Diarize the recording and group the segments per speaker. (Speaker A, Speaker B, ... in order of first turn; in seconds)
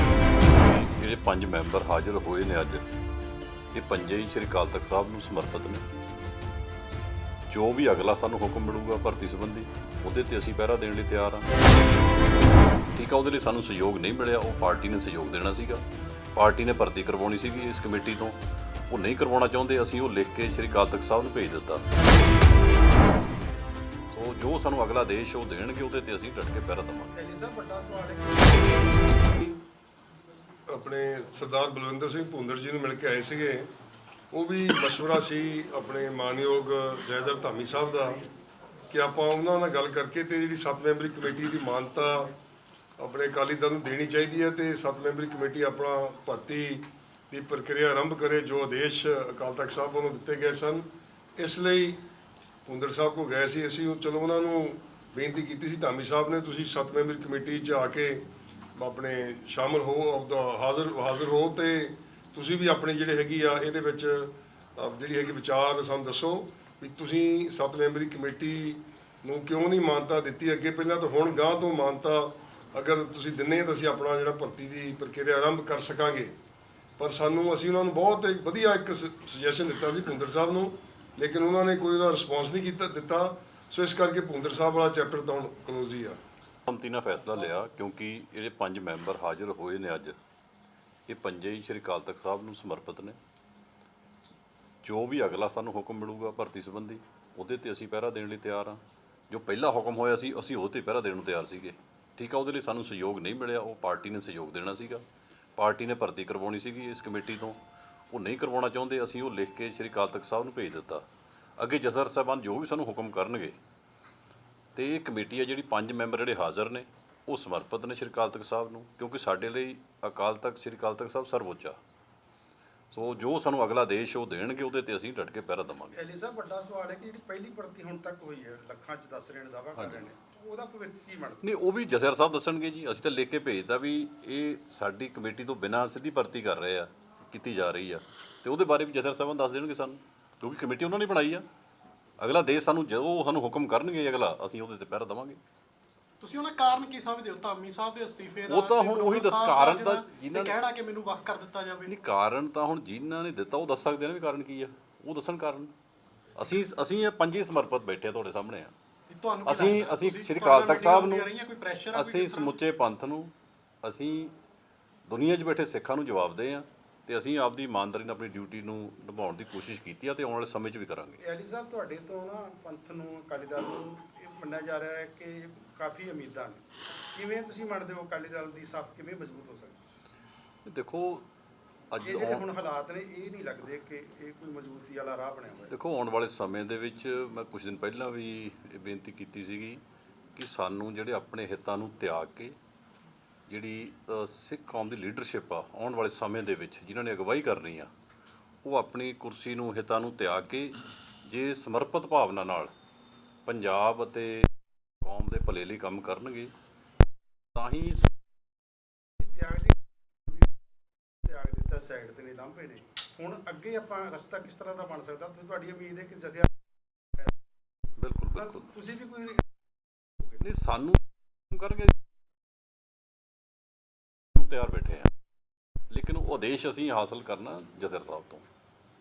Speaker A: 0.5-2.8, 3.7-5.8, 7.5-11.5, 12.9-15.8, 16.4-18.4, 18.9-21.9, 24.1-27.1, 86.7-90.2, 91.1-93.2, 94.8-105.0, 105.6-107.6, 108.1-111.0, 111.6-113.6, 114.8-121.8, 122.9-126.0, 129.8-130.1, 131.4-141.4, 142.2-145.4, 148.5-150.6, 151.9-155.7, 156.4-158.7, 159.4-161.3, 161.9-164.4, 165.1-171.2, 180.7-181.3, 181.9-182.4, 185.7-189.8, 190.3-192.6, 193.5-197.9, 198.6-202.7, 203.5-204.5, 205.0-206.5, 207.6-208.1, 218.0-218.7, 220.4-222.0, 224.3-225.1, 225.9-228.5
Speaker B: 27.1-28.8, 126.0-131.4, 171.2-176.6, 177.1-179.8, 182.0-185.7, 209.2-209.8, 211.2-216.5, 218.4-219.5
Speaker C: 30.7-33.7, 34.3-38.2, 38.9-42.3, 43.0-50.9, 51.4-52.0, 52.7-58.2, 58.8-76.3, 77.0-86.2
Speaker D: 146.2-151.9, 159.1-162.6